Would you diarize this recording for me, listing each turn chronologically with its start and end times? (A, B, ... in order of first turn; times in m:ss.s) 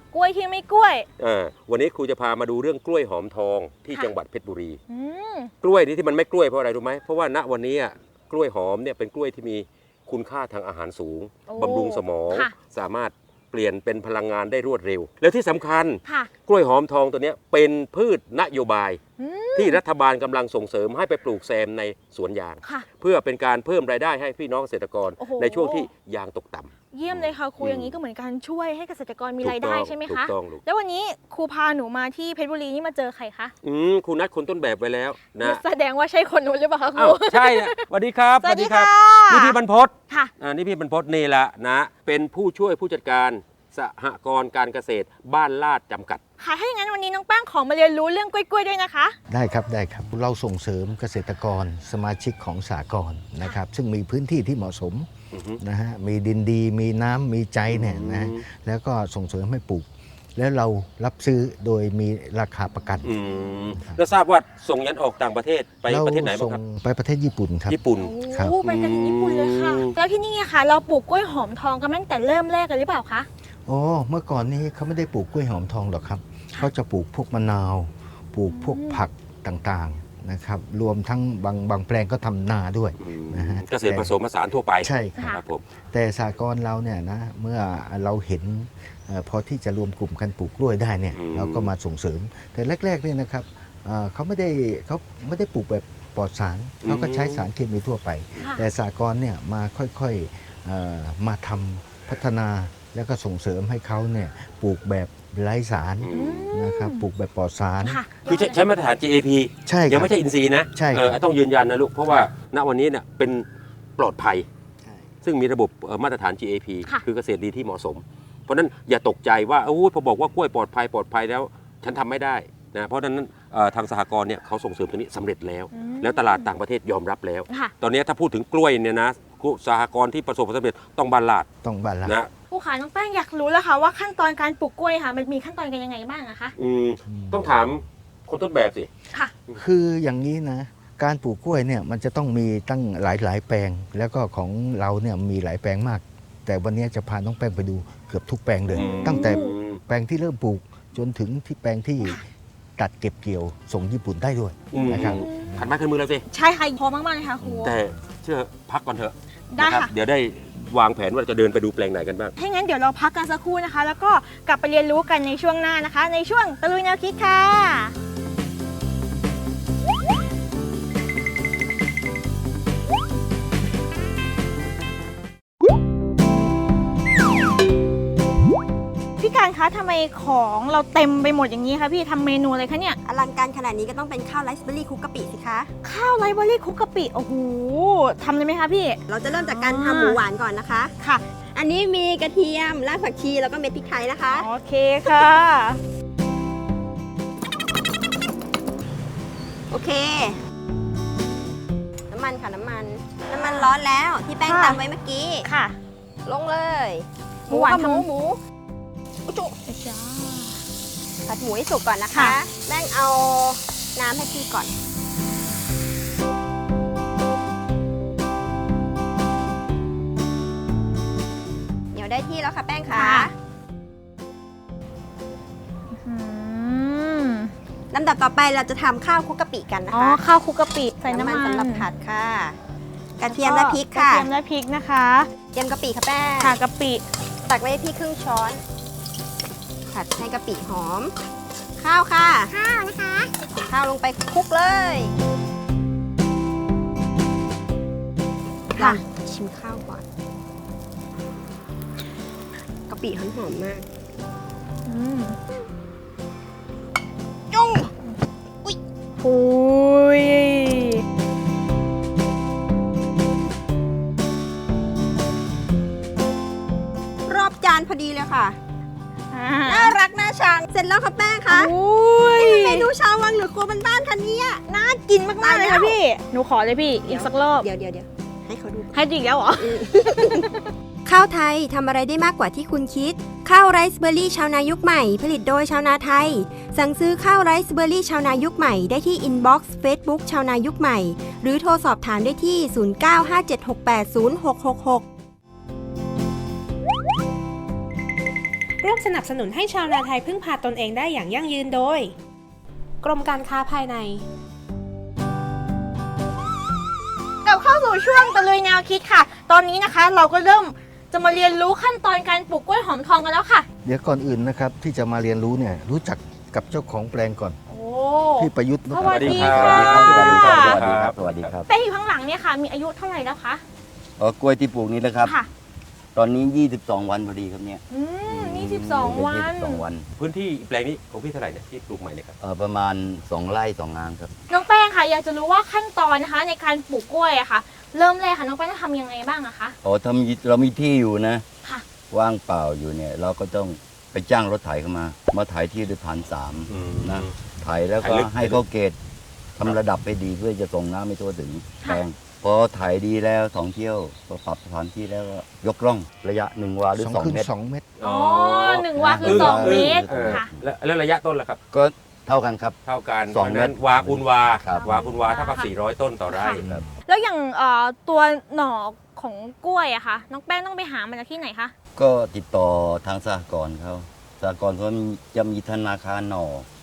0:00.1-0:01.1 A
0:01.2-0:04.8 B
0:04.9-0:05.5 A
0:05.6-0:19.0 B
0:11.5-0:12.5 A
0:16.0-0:16.3 A
0:19.2-0:19.8 A
0:19.6-0:28.0 B
0:25.2-0:25.9 A
0:26.9-0:33.5 A
0:29.4-0:30.6 B
0:33.6-0:35.6 B
0:35.4-0:37.8 A
0:37.0-0:46.2 B
0:38.4-0:39.6 A
0:46.4-0:49.2 A
0:49.3-0:55.1 C
0:55.3-0:55.6 B
0:55.6-1:03.1 C
0:57.7-0:58.4 B
1:03.0-1:06.6 B
1:03.7-1:04.0 C
1:05.9-1:07.8 C
1:07.7-1:08.1 B
1:08.0-1:13.3 A
1:08.3-1:08.6 C
1:08.6-1:09.9 B
1:13.7-1:24.1 C
1:18.5-1:19.0 A
1:23.0-1:25.6 B
1:24.8-1:25.2 C
1:25.9-1:48.0 C
1:31.2-1:31.7 B
1:36.8-1:37.5 B
1:38.4-1:38.6 A
1:46.0-1:46.4 B
1:46.1-1:47.0 A
1:47.8-1:48.2 A
1:48.2-1:48.6 D
1:48.2-1:53.4 B
1:49.7-1:50.1 C
1:50.8-1:51.2 C
1:54.0-1:54.4 B
1:55.2-2:11.5 B
2:05.7-2:06.5 A
2:11.6-2:12.2 C
2:12.0-2:12.3 B
2:12.5-2:16.5 A
2:16.6-2:18.9 B
2:17.1-2:17.7 C
2:19.6-2:32.2 C
2:28.7-2:29.8 B
2:28.8-2:29.6 A
2:32.8-2:35.7 C
2:34.7-2:36.2 B
2:35.0-2:35.6 A
2:36.3-2:37.8 A
2:37.4-2:37.9 C
2:37.6-2:42.3 B
2:39.6-2:39.9 A
2:42.4-2:47.9 A
2:59.2-3:03.0 A
3:03.0-3:05.7 D
3:05.8-3:10.2 A
3:09.1-3:10.9 D
3:11.6-3:14.5 D
3:14.3-3:15.8 A
3:19.7-3:20.4 D
3:22.1-3:25.5 D
3:23.4-3:23.7 A
3:24.5-3:24.8 A
3:25.4-3:25.8 A
3:26.2-3:28.4 D
3:27.5-3:28.1 A
3:29.3-3:29.6 D
3:29.7-3:30.6 A
3:31.3-3:34.7 D
3:32.1-3:32.4 A
3:41.9-3:43.3 D
3:42.9-3:43.3 A
3:46.0-3:47.5 A
3:47.9-3:50.2 D
3:49.9-3:51.9 A
3:51.1-3:52.6 D
3:53.2-3:54.3 D
3:53.3-3:55.3 A
3:55.5-3:56.5 D
3:56.4-3:57.0 A
3:57.5-3:58.6 D
3:59.9-4:01.2 D
4:01.8-4:05.1 D
4:02.5-4:03.0 A
4:08.7-4:10.0 D
4:12.9-4:13.9 D
4:14.9-4:15.4 A
4:17.5-4:17.9 D
4:19.2-4:21.0 A
4:27.3-4:28.6 D
4:29.3-4:30.0 A
4:29.7-4:31.7 D
4:31.5-4:32.9 A
4:32.3-4:34.6 D
4:34.7-4:37.7 A
4:35.4-4:36.0 D
4:37.1-4:39.0 D
4:38.9-4:40.7 A
4:39.6-4:40.5 D
4:41.1-4:55.1 D
4:58.8-5:02.1 E
5:03.0-5:04.2 E
5:07.4-5:13.7 A
5:13.8-5:17.6 C
5:17.7-5:20.8 A
5:18.4-5:20.0 C
5:19.1-5:21.6 B
5:19.3-5:21.7 F
5:21.7-5:23.6 A
5:24.2-5:25.4 F
5:26.2-5:27.8 F
5:27.9-5:29.8 A
5:28.3-5:29.2 B
5:29.0-5:30.1 F
5:30.2-5:32.4 B
5:32.4-5:34.3 F
5:34.5-5:39.8 A
5:39.8-5:41.4 F
5:42.1-5:49.0 F
5:46.7-5:47.4 B
5:48.0-5:48.6 B
5:49.6-5:57.5 F
5:57.0-5:57.8 C
5:58.0-6:01.6 B
5:58.0-6:00.5 A
5:59.0-6:00.6 F
6:01.7-6:02.8 F
6:02.9-6:06.7 B
6:03.3-6:05.0 F
6:04.7-6:05.7 A
6:06.3-6:11.7 A
6:06.6-6:06.9 C
6:12.0-6:16.7 F